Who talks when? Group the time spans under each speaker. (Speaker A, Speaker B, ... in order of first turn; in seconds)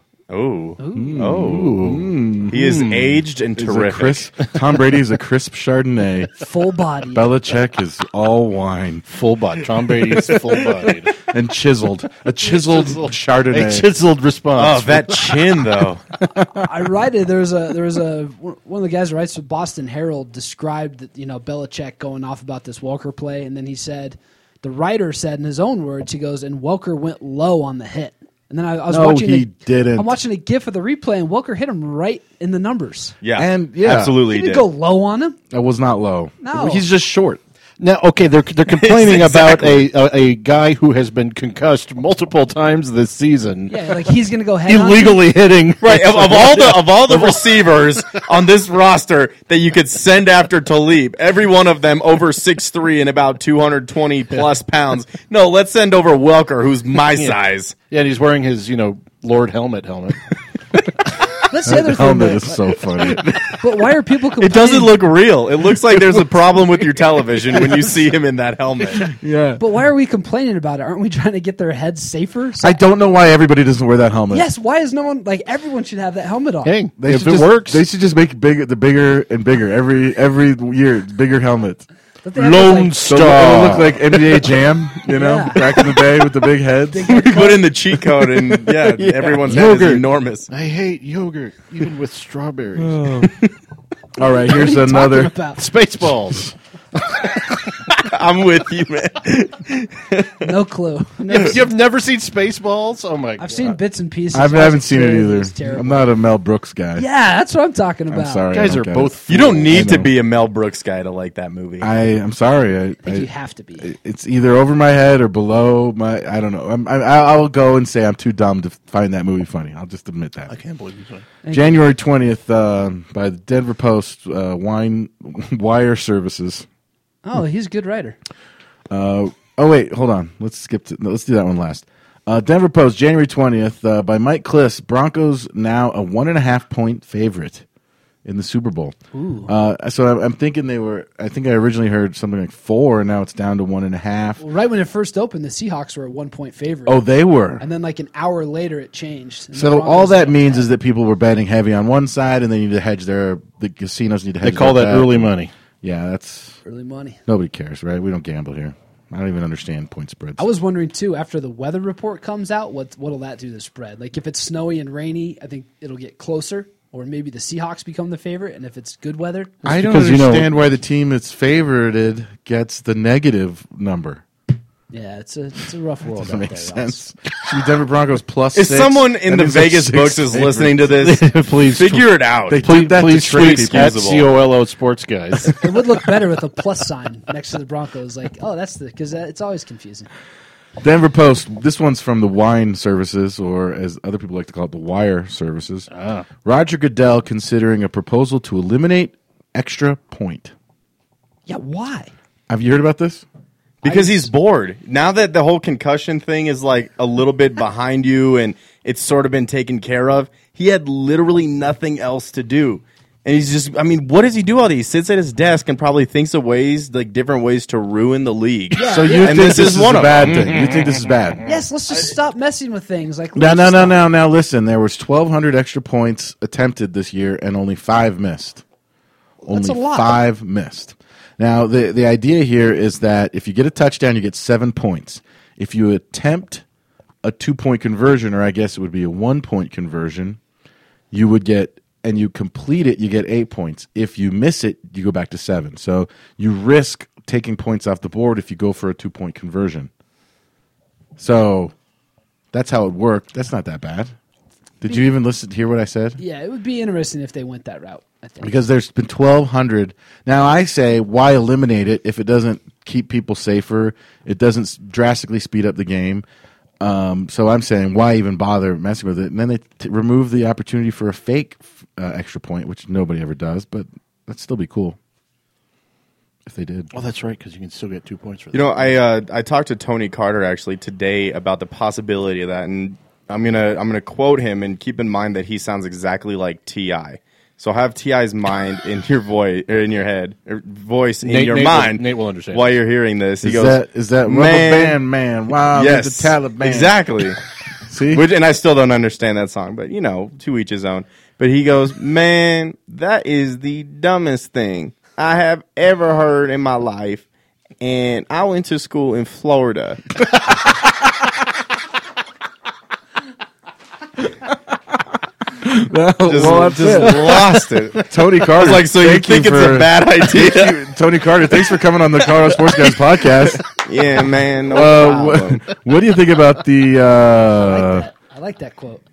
Speaker A: 0.3-1.8, 2.5-4.3, 10.2-10.9, 14.6-16.0, 33.2-34.7, 38.7-39.8, 45.8-57.7, 64.4-69.1, 87.1-90.5, 97.9-100.5, 109.3-111.9, 178.5-184.3, 203.8-220.5, 278.5-295.0, 295.7-297.4, 298.1-307.2, 307.8-310.0, 316.2-320.8, 323.6-325.6
Speaker B: 0.8-1.1, 6.3-7.3, 16.4-33.1, 34.3-35.4, 36.4-36.8, 43.7-45.2, 61.5-65.0, 69.6-72.8, 74.3-76.8, 82.2-83.1, 85.1-86.1, 86.9-87.7, 94.3-95.6, 100.4-101.6, 103.4-106.1, 107.0-108.5, 113.0-113.9, 121.4-121.8, 127.2-128.2, 139.1-139.5, 144.4-147.0, 147.6-150.7, 156.6-157.2, 160.4-169.6, 174.9-177.0, 185.5-190.1, 201.5-202.1, 203.8-204.3, 218.7-219.7, 221.4-224.0, 229.4-230.1, 256.2-258.5, 327.5-329.0
Speaker C: 0.9-2.5, 3.5-6.3, 7.1-9.1, 11.2-13.9, 28.9-30.1, 33.3-34.2, 35.5-37.4, 61.6-63.2, 69.0-69.6, 72.6-74.5, 77.0-81.8, 83.0-87.7, 88.2-90.0, 94.2-95.3, 104.3-107.0, 108.1-110.1, 111.8-113.3, 113.8-120.5, 121.5-126.6, 128.9-137.6, 138.2-138.9, 139.5-144.4, 146.8-147.6, 149.5-156.6, 157.3-160.4, 169.6-174.2, 176.2-180.9, 182.5-183.9, 190.8-195.9, 196.4-200.5, 202.5-203.2, 218.8-221.4, 223.3-228.6, 229.4-236.6, 237.2-240.4, 241.1-249.9, 251.2-251.7, 252.5-254.1, 254.8-256.2, 258.4-266.2, 266.8-275.0, 276.4-276.9, 293.4-296.9, 297.9-298.2, 315.6-317.4, 318.0-323.6, 324.7-328.1
Speaker D: 1.2-3.2, 9.1-11.2, 12.4-15.8, 37.8-48.2, 57.9-60.2, 76.6-77.8, 82.3-84.5, 89.0-93.3, 95.5-96.5, 97.0-97.6, 101.3-103.7, 108.5-110.0, 120.5-121.2, 154.4-155.5, 169.7-170.5, 181.0-182.1, 182.6-185.8, 195.9-196.2, 220.2-221.6, 276.9-278.9, 291.2-292.7, 316.9-318.0